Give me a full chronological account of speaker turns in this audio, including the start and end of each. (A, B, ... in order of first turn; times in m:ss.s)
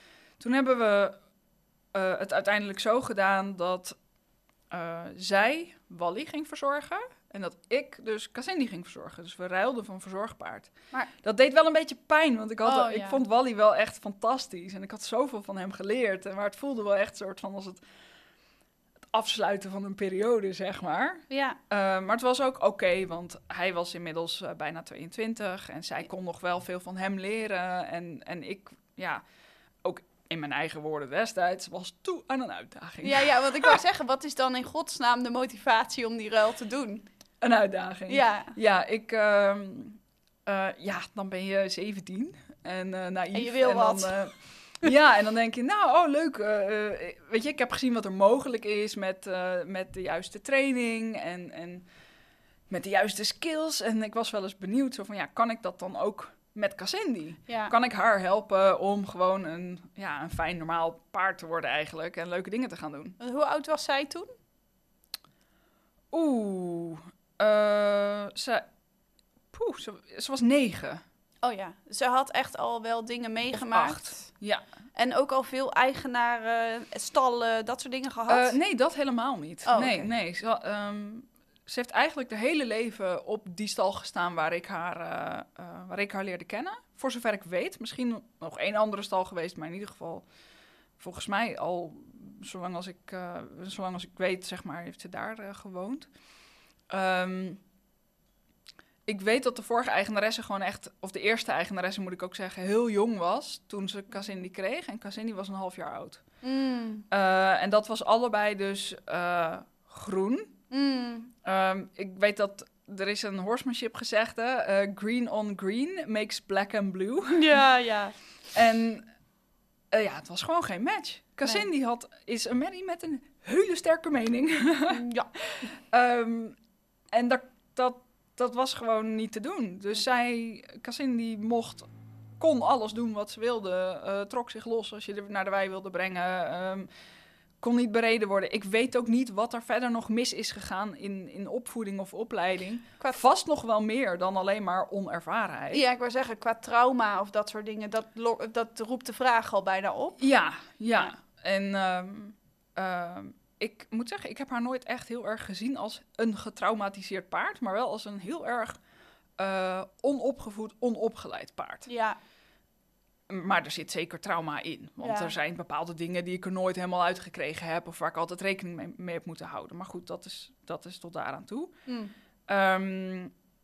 0:00.4-0:01.2 A
0:01.9-0:04.0 A
0:04.7-0:17.8 A
0:12.6-0:13.2 B
0:19.1-0:29.2 A
0:21.3-0:21.6 B
0:29.8-0:33.8 A
0:33.0-0:37.1 B
0:37.4-0:51.8 A
0:38.1-0:38.6 B
0:43.3-0:44.3 B
0:52.7-1:03.2 A
0:57.5-0:57.7 B
1:03.2-1:04.3 B
1:06.1-1:08.7 A
1:09.5-1:11.0 A
1:11.4-1:14.3 B
1:13.5-1:14.6 A
1:14.9-1:18.6 B
1:18.3-1:30.2 A
1:19.6-1:20.1 B
1:31.0-1:36.1 A
1:36.9-1:37.6 A
1:39.1-1:46.2 A
1:46.4-1:47.0 B
1:47.1-1:50.5 A
1:50.7-1:51.3 B
1:51.4-1:57.5 A
1:57.3-1:58.2 B
1:58.5-1:59.0 A
1:59.9-2:06.6 A
2:04.9-2:05.3 B
2:07.1-2:11.9 A
2:12.4-2:16.9 A
2:17.6-2:25.8 A
2:25.7-2:30.2 B
2:30.2-2:38.8 A
2:39.4-2:41.9 A
2:41.8-2:42.2 B
2:43.3-2:51.7 A
2:45.0-2:45.3 B
2:51.9-2:52.1 B
2:52.5-2:53.3 A